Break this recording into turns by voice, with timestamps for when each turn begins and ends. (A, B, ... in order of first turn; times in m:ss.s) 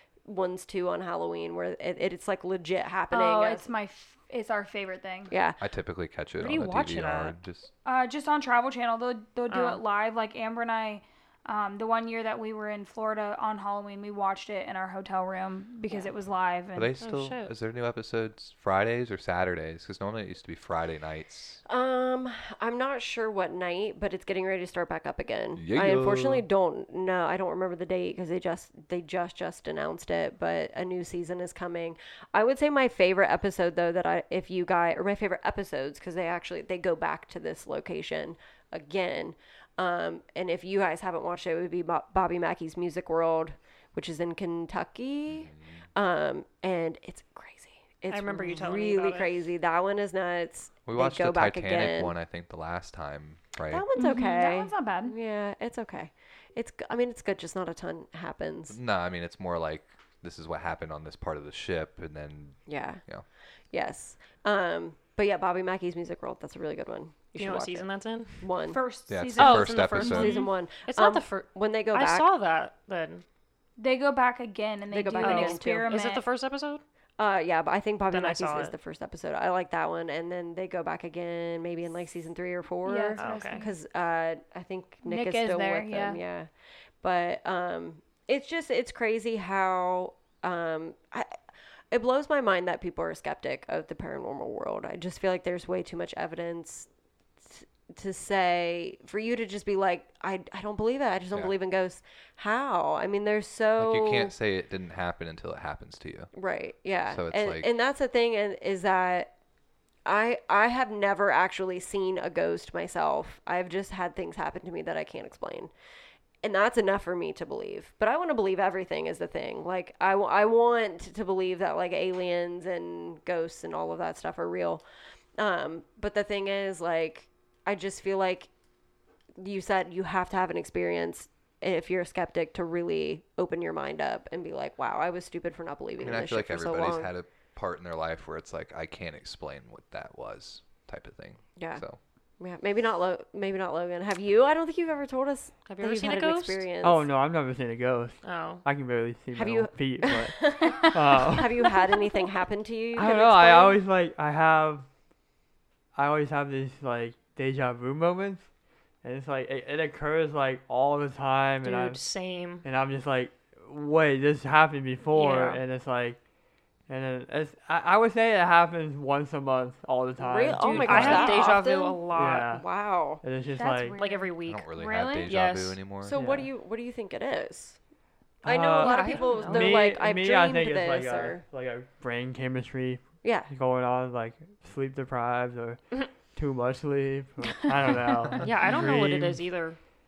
0:00.2-0:03.6 A
0:03.1-0:05.3 B
0:05.3-0:05.6 A
0:05.6-0:07.7 C
0:06.4-0:07.3 D
0:07.8-0:16.9 B
0:09.5-0:09.8 D
0:16.7-0:21.6 C
0:17.0-0:17.5 D
0:21.7-0:52.1 A
0:25.6-0:26.4 C
0:45.5-0:45.8 C
0:48.1-0:49.3 D
0:50.9-0:53.8 C
0:53.7-0:58.8 A
0:54.0-0:55.1 B
0:58.7-1:03.2 C
1:02.7-1:03.0 A
1:03.7-1:07.9 A
1:07.4-1:08.5 D
1:08.4-1:08.8 A
1:08.7-1:10.3 B
1:09.1-1:10.4 C
1:09.4-1:13.2 D
1:10.0-1:12.3 A
1:13.8-1:16.2 B
1:14.9-1:15.9 A
1:15.2-1:16.8 D
1:17.2-1:26.5 A
1:18.1-1:18.7 D
1:22.8-1:23.7 B
1:23.2-1:23.6 D
1:25.0-1:26.2 B
1:27.0-1:31.3 A
1:31.9-1:36.9 A
1:37.4-1:44.3 A
1:43.8-1:46.3 C
1:46.3-1:49.3 A
1:47.1-1:47.7 C
1:50.0-1:55.7 A
1:56.4-2:04.8 A
2:05.4-2:08.5 A
2:09.4-2:17.1 A
2:16.0-2:22.0 C
2:21.6-2:21.8 A
2:22.4-2:27.1 A
2:25.7-2:26.6 D
2:26.8-2:31.7 E
2:28.2-2:28.6 D
2:29.3-2:33.8 A
2:30.6-2:30.8 B
2:31.6-2:31.9 B
2:33.0-2:34.9 E
2:35.9-2:38.4 E
2:39.0-2:42.0 E
2:41.6-2:42.6 D
2:42.6-2:46.2 E
2:45.1-2:45.6 D
2:46.9-2:51.2 E
2:50.2-2:53.2 A
2:50.6-2:51.5 B
2:50.9-2:52.5 D
2:52.1-2:52.6 E
2:53.2-2:54.0 E
2:53.5-2:55.3 B
2:54.0-2:54.6 D
2:54.4-2:56.1 C
2:55.2-2:55.8 D
2:56.0-2:57.8 A
2:56.1-2:56.4 E
2:58.4-3:05.8 E
2:58.4-3:01.4 A
2:58.8-2:59.9 D
3:03.2-3:03.5 A
3:06.3-3:09.4 E
3:08.4-3:09.8 D